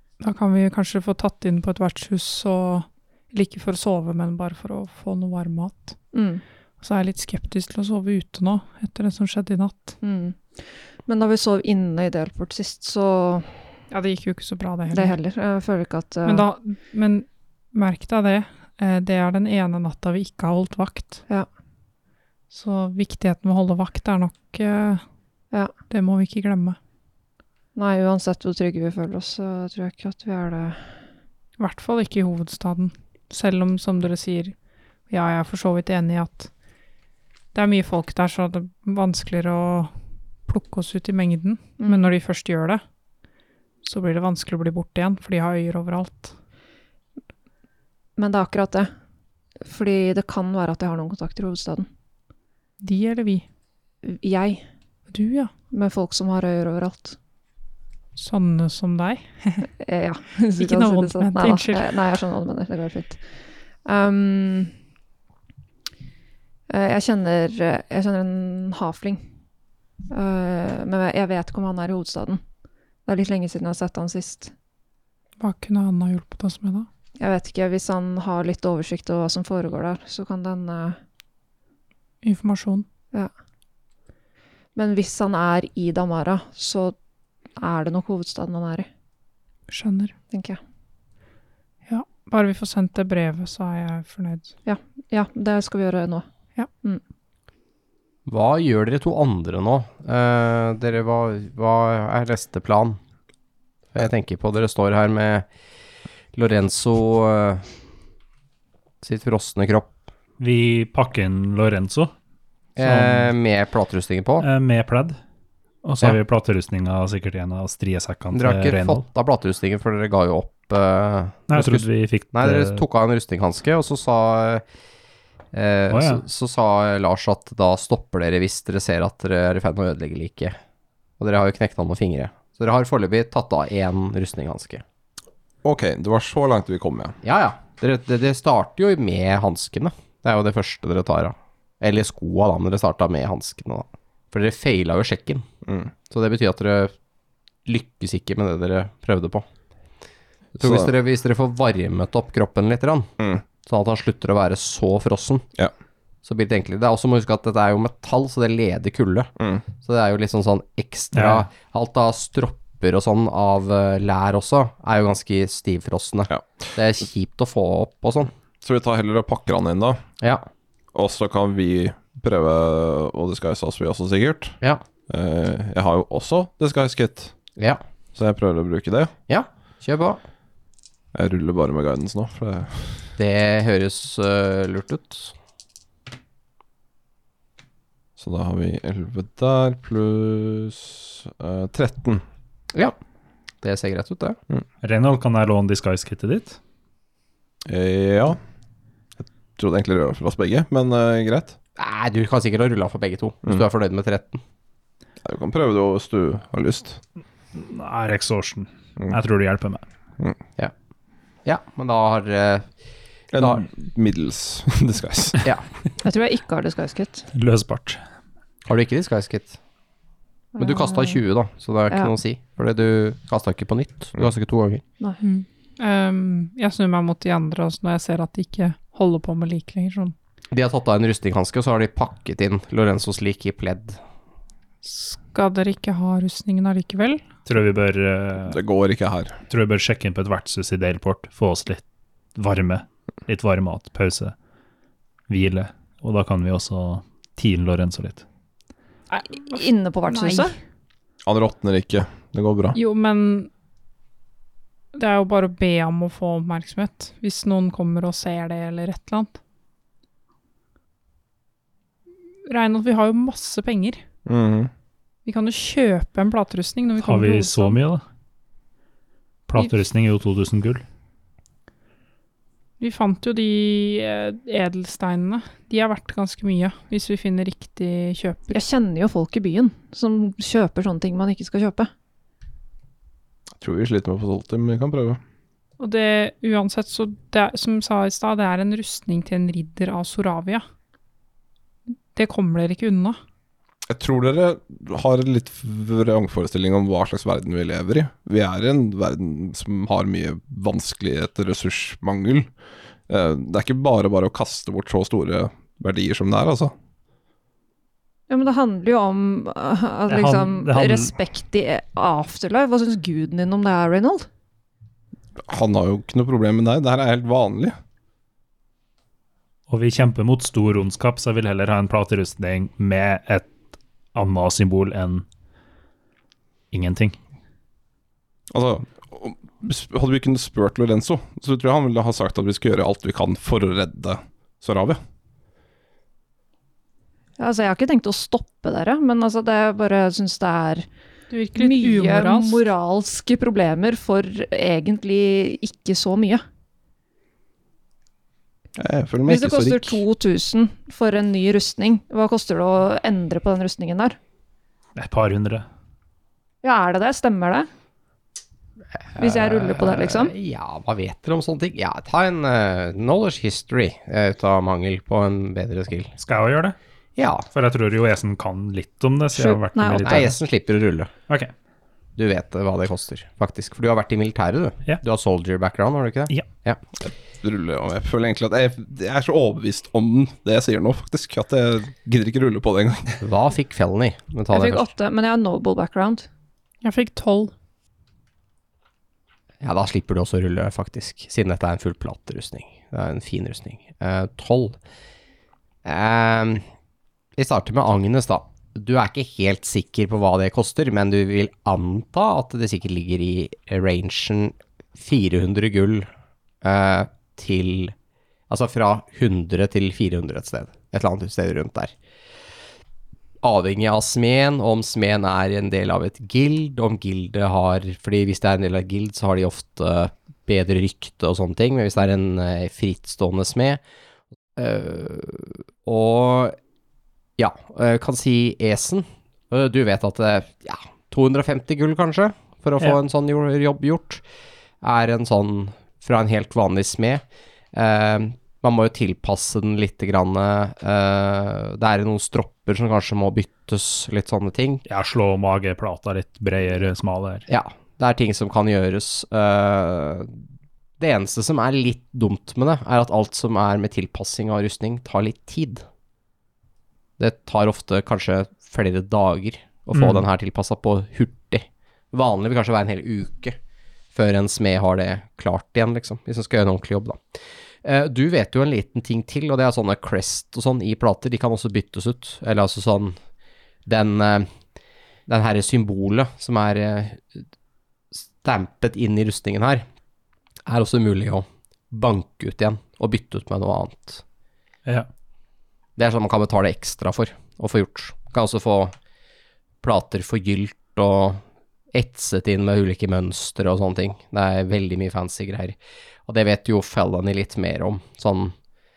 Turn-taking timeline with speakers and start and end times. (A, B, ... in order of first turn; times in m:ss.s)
0:00.2-0:06.0 A
0:06.1-0:06.4 B
0:06.8-0:10.0 A
0:10.0-0:13.5 B
0:13.9-0:15.2 A
0:14.9-0:16.4 B
0:16.2-0:21.2 A
0:22.5-0:25.0 A
0:25.9-0:26.8 A
0:27.7-0:30.9 B
0:31.6-0:34.5 A
0:35.1-0:36.5 A
0:37.5-0:39.9 A
0:40.5-0:42.8 A
0:41.8-0:42.1 B
0:43.8-0:46.3 A
0:48.2-0:48.9 B
0:49.6-0:51.9 B
0:52.8-0:53.4 A
0:54.0-0:54.6 B
0:55.1-0:55.5 A
0:55.7-0:57.2 B
0:58.2-0:59.7 A
0:59.8-1:03.2 B
1:00.6-1:02.0 A
1:03.8-1:04.7 B
1:06.7-1:09.2 B
1:10.1-1:12.4 B
1:13.0-1:14.5 B
1:15.4-1:16.9 A
1:17.2-1:21.0 B
1:22.2-1:22.8 A
1:24.7-1:26.9 B
1:27.6-1:28.9 B
1:29.7-1:30.1 A
1:30.3-1:30.6 B
1:31.9-1:34.5 A
1:34.6-1:36.2 B
1:38.3-1:43.0 C
1:43.9-1:45.4 C
1:46.3-1:47.6 C
1:49.0-1:49.9 C
1:50.4-1:52.1 D
1:52.8-1:54.4 C
1:52.8-1:53.3 D
1:54.4-1:55.2 D
1:55.8-1:59.0 D
1:58.3-2:04.6 C
2:01.5-2:02.8 D
2:05.5-2:10.6 C
2:05.9-2:06.2 D
2:11.2-2:14.8 C
2:15.6-2:17.2 E
2:17.2-2:25.5 C
2:25.6-2:25.9 E
2:26.1-2:26.9 C
2:27.6-2:29.5 C
2:30.6-2:35.5 C
2:30.6-2:30.9 E
2:33.2-2:33.4 E
2:36.2-2:48.3 C
2:39.4-2:39.6 E
2:41.1-2:41.4 D
2:48.6-2:50.0 E
2:50.2-2:50.4 C
2:50.9-2:54.6 E
2:55.1-2:57.3 E
2:58.1-2:59.1 E
2:59.3-3:00.2 C
3:01.1-3:03.1 E
3:03.2-3:05.3 C
3:08.2-3:12.2 E
3:13.6-3:14.4 C
3:14.8-3:16.6 D
3:17.7-3:18.4 E
3:19.2-3:21.6 E
3:21.8-3:24.4 C
3:25.2-3:27.0 E
3:27.5-3:29.8 D
3:31.4-3:32.7 C
3:33.3-3:35.5 E
3:33.4-3:33.6 C
3:36.0-3:37.3 B
3:37.3-3:38.0 D
3:38.6-3:39.6 C
3:40.5-3:41.2 B
3:40.6-3:44.8 C
3:45.2-3:50.1 A
3:50.5-3:54.0 C
3:54.8-3:57.2 A
3:57.4-3:58.6 D
3:58.4-3:59.4 E
3:59.5-4:01.8 D
4:02.3-4:04.3 D
4:05.3-4:08.2 D
4:09.1-4:10.5 A
4:09.3-4:10.5 B
4:11.2-4:12.8 E
4:12.7-4:13.5 A
4:14.9-4:19.3 A
4:22.4-4:24.0 A
4:24.2-4:24.7 E
4:25.2-4:27.8 A
4:27.0-4:28.0 D
4:29.5-4:30.8 D
4:32.8-4:38.6 A
4:38.5-4:41.9 B
4:43.6-4:45.2 E
4:45.8-4:50.6 A
4:52.1-4:53.2 A
4:53.9-5:02.5 E
5:03.1-5:06.7 E
5:08.3-5:14.3 B
5:10.1-5:11.1 D
5:15.4-5:17.8 E
5:19.7-5:23.5 D
5:24.1-5:25.2 D
5:26.7-5:27.2 D
5:28.5-5:35.0 E
5:37.4-5:40.9 B
5:41.3-5:42.6 A
5:41.6-5:46.4 B
5:48.8-5:50.0 E
5:49.2-5:54.2 B
5:55.0-5:55.6 D
5:56.6-5:57.7 B
5:59.1-6:06.1 C
5:59.2-6:00.3 B
6:06.2-6:06.8 D
6:07.2-6:07.5 C
6:07.5-6:10.4 D
6:09.3-6:10.2 B
6:10.0-6:11.1 C
6:12.2-6:16.8 C
6:17.0-6:23.2 E
6:23.2-6:24.9 C
6:24.5-6:26.3 B
6:26.8-6:27.5 A
6:29.6-6:34.8 C
6:35.8-6:36.6 C
6:37.4-6:46.1 C
6:46.6-6:47.9 C
6:48.5-6:51.9 C
6:53.4-7:03.8 C
7:04.6-7:06.6 C
7:07.4-7:14.2 C
7:14.8-7:24.8 C
7:24.9-7:27.4 D
7:27.5-7:30.4 C
7:31.0-7:35.8 C
7:37.2-7:43.6 C
7:39.9-7:40.2 D
7:44.1-7:47.2 C
7:47.8-7:53.2 C
7:53.8-7:54.5 C
7:55.3-7:57.4 C
7:58.2-7:59.8 C
8:00.6-8:04.2 C
8:06.0-8:08.9 C
8:09.8-8:18.5 C